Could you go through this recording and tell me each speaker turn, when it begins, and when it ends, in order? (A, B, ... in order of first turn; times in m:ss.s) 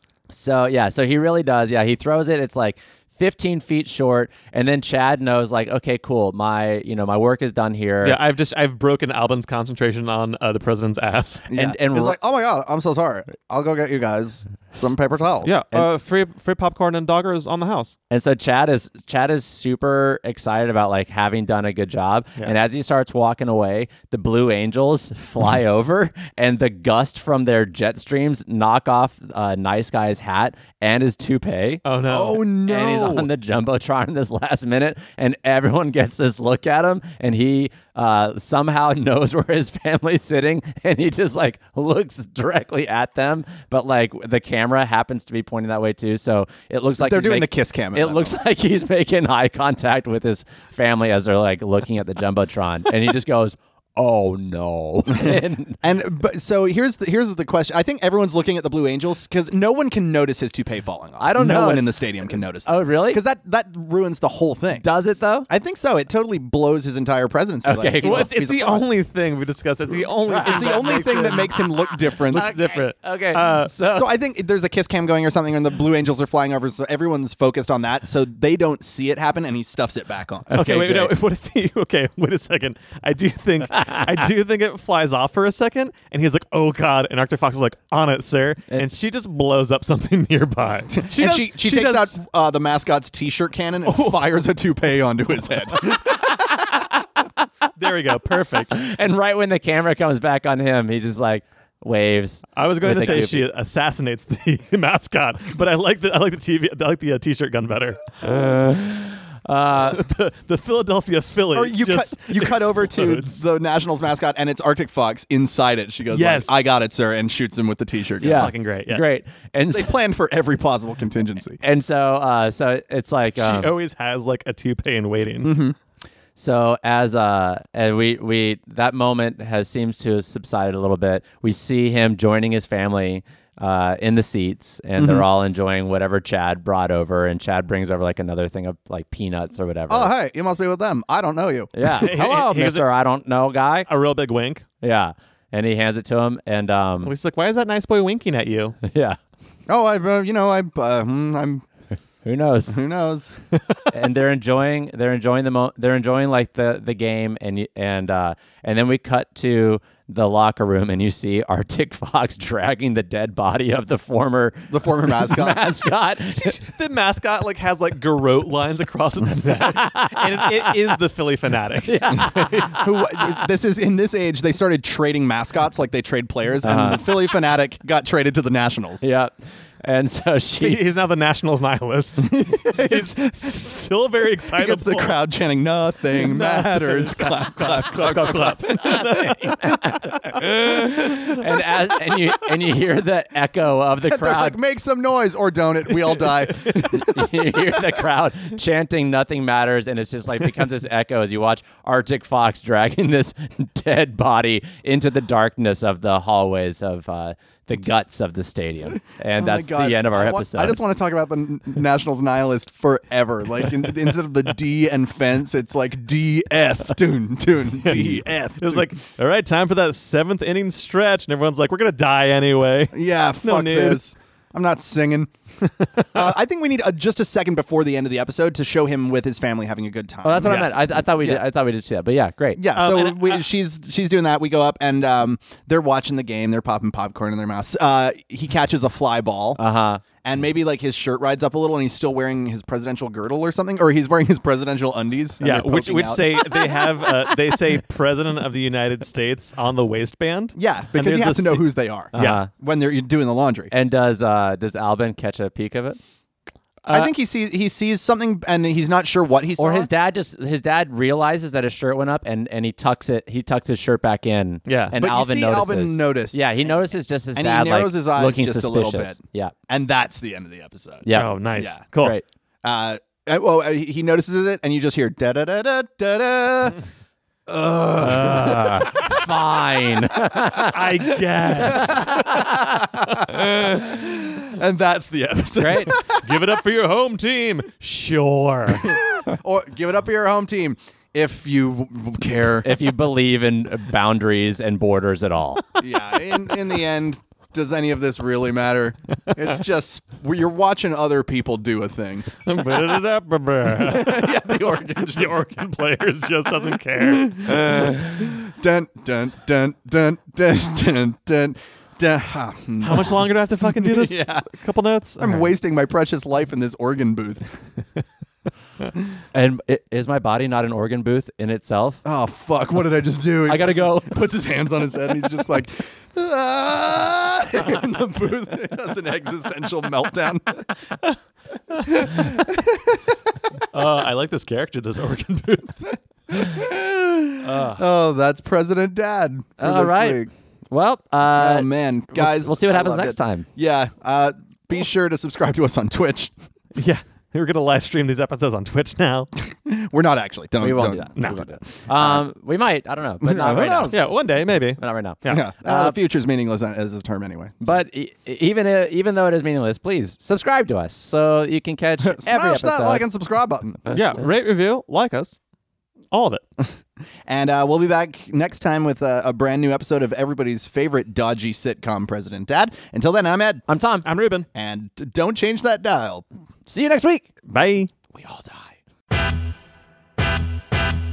0:00.3-0:08.2 A
0:08.0-0:11.5 B
0:11.5-0:15.5 C
0:11.5-0:12.2 A
0:15.4-0:18.0 B
0:18.1-0:31.8 A
0:31.8-0:32.4 B
0:32.1-0:33.3 C
0:32.5-0:55.8 A
0:47.0-0:48.4 C
0:55.1-1:04.9 C
1:01.2-1:03.2 A
1:04.7-1:05.5 A
1:05.5-1:08.8 C
1:07.6-1:08.8 A
1:08.0-1:11.6 B
1:10.3-1:14.1 A
1:10.4-1:12.5 C
1:12.1-1:13.7 B
1:13.9-1:20.5 C
1:20.5-1:21.2 A
1:20.5-1:32.2 B
1:23.8-1:24.1 A
1:30.9-1:36.5 C
1:33.8-1:34.2 B
1:37.8-1:38.8 B
1:38.7-1:43.5 A
1:42.6-1:48.2 B
1:48.2-1:50.0 A
1:49.7-1:53.4 B
1:51.5-1:58.5 C
1:56.1-1:56.6 B
1:58.2-2:00.0 A
1:58.2-1:59.2 B
1:59.7-2:01.6 C
2:01.6-2:03.7 A
2:03.4-2:05.5 B
2:05.4-2:05.8 C
2:06.4-2:20.1 A
2:15.0-2:15.3 C
2:19.9-2:21.7 C
2:21.7-2:23.9 A
2:21.9-2:22.9 B
2:23.9-2:24.6 B
2:24.8-2:27.1 A
2:27.0-2:28.8 B
2:28.8-2:29.2 A
2:29.7-2:31.6 C
2:32.2-2:32.8 A
2:32.7-2:33.4 C
2:33.9-2:46.6 A
2:44.7-2:45.6 C
2:46.4-2:52.2 B
2:49.5-2:50.8 A
2:51.8-2:53.2 A
2:52.1-2:59.0 C
2:56.6-2:57.0 A
2:59.0-3:00.8 A
3:00.6-3:05.2 B
3:02.2-3:03.4 C
3:04.6-3:08.6 C
3:06.1-3:09.9 B
3:08.0-3:14.6 A
3:10.6-3:10.9 C
3:14.0-3:17.7 C
3:16.7-3:30.8 A
3:28.9-3:38.9 C
3:37.8-3:44.0 B
3:42.9-3:45.3 C
3:45.6-3:46.3 B
3:46.1-3:51.4 C
3:50.2-3:52.6 A
3:50.4-3:50.7 B
3:52.6-3:59.6 C
3:52.8-3:53.4 B
3:59.6-4:00.0 A
4:00.2-4:06.4 C
4:05.4-4:12.4 B
4:10.6-4:13.7 C
4:12.1-4:12.5 A
4:13.7-4:16.0 A
4:16.9-4:19.9 C
4:19.6-4:29.5 A
4:24.7-4:25.0 B
4:24.9-4:26.8 C
4:27.4-4:31.8 C
4:31.0-4:31.3 A
4:31.2-4:32.2 B
4:31.9-4:32.2 A
4:32.6-4:36.8 C
4:37.5-4:39.3 C
4:38.0-4:40.8 A
4:40.7-4:42.4 B
4:41.4-4:46.5 C
4:41.6-4:42.5 A
4:43.1-4:43.5 B
4:45.6-4:46.0 A
4:46.2-4:49.0 B
4:48.7-4:52.8 C
4:52.6-4:55.6 A
4:55.8-5:02.4 C
5:02.4-5:04.4 B
5:03.8-5:05.5 C
5:05.1-5:07.8 B
5:07.0-5:14.5 C
5:12.8-5:15.5 B
5:15.2-5:17.6 C
5:19.3-5:22.0 A
5:22.0-5:30.7 C
5:23.5-5:24.2 A
5:31.8-5:33.2 C
5:33.7-5:35.8 B
5:36.3-5:40.3 C
5:37.4-5:37.8 A
5:39.6-5:43.5 A
5:41.3-5:46.3 C
5:46.8-5:49.3 B
5:49.5-5:52.3 C
5:50.6-5:54.1 A
5:51.2-5:51.4 B
5:53.2-5:54.0 C
5:53.9-5:55.4 B
5:54.8-5:56.0 A
5:55.3-5:57.8 C
5:57.6-6:03.1 A
6:02.0-6:03.9 C
6:03.9-6:05.4 B
6:06.1-6:06.4 B
6:07.3-6:13.6 C
6:13.7-6:14.1 A
6:14.0-6:14.5 B
6:14.6-6:16.2 C
6:16.7-6:17.3 A
6:17.5-6:17.9 B
6:18.1-6:18.8 A